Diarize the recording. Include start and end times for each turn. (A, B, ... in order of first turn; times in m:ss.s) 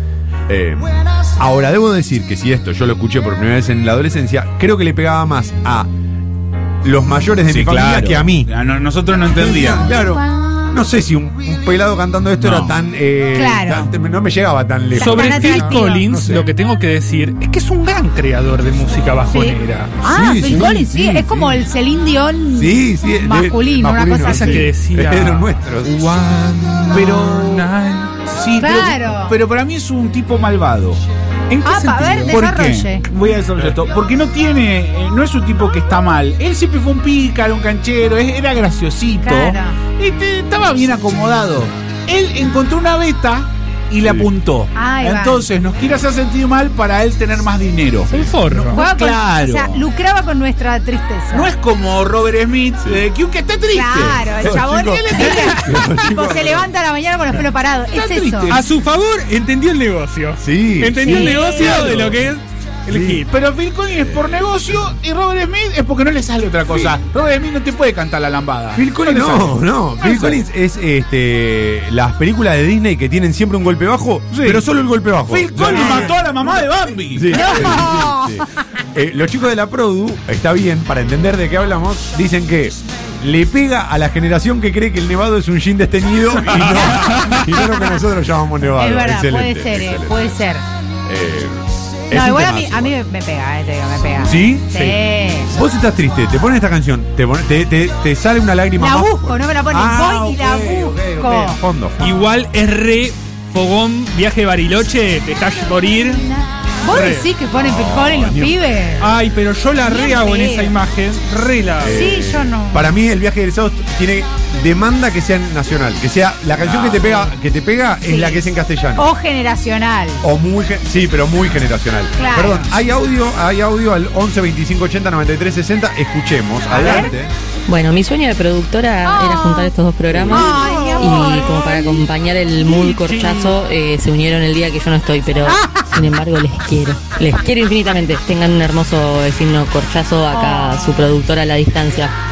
0:00.5-0:05.9 A
0:06.8-0:08.5 A
0:07.5-0:09.9 B
0:09.2-0:16.5 A
0:12.4-0:12.8 B
0:13.4-0:13.9 C
0:15.0-0:16.1 C
0:15.0-0:20.0 D
0:19.3-0:24.7 C
0:20.0-0:21.7 A
0:22.6-0:25.9 A
0:24.2-0:28.3 D
0:26.9-0:27.7 B
0:28.3-0:31.0 B
0:28.6-0:29.4 C
0:31.5-0:32.4 D
0:31.6-0:33.1 C
0:32.3-0:49.9 B
0:39.2-0:39.8 C
0:44.0-0:44.3 A
0:44.7-0:45.5 C
0:48.1-0:48.8 D
0:48.7-0:51.5 C
0:51.3-0:55.8 B
0:52.8-0:53.1 A
0:53.7-0:58.6 C
0:54.4-0:56.7 A
0:57.9-0:58.7 B
0:58.5-1:03.3 D
1:00.4-1:02.3 A
1:01.0-1:01.8 C
1:02.9-1:03.2 A
1:03.3-1:10.4 B
1:04.1-1:04.4 A
1:08.8-1:16.2 A
1:14.3-1:14.6 B
1:15.3-1:17.8 B
1:15.7-1:16.1 C
1:17.1-1:30.4 A
1:17.3-1:18.4 C
1:26.5-1:26.9 B
1:27.0-1:27.4 D
1:28.8-1:30.6 C
1:31.1-1:33.0 A
1:32.1-1:35.5 C
1:34.2-1:42.3 A
1:38.8-1:41.6 C
1:42.0-1:46.3 D
1:46.8-1:49.1 C
1:46.9-1:47.3 D
1:47.6-1:48.6 A
1:49.0-1:52.2 D
1:49.8-1:50.8 C
1:51.8-1:59.1 A
1:51.8-1:52.9 C
1:56.6-1:57.1 B
1:58.0-2:00.2 C
2:00.2-2:07.3 A
2:02.2-2:02.7 C
2:06.7-2:07.1 C
2:07.7-2:22.2 E
2:09.0-2:09.7 C
2:10.1-2:10.7 A
2:10.3-2:12.0 C
2:12.9-2:13.4 D
2:15.5-2:15.9 C
2:20.3-2:21.0 C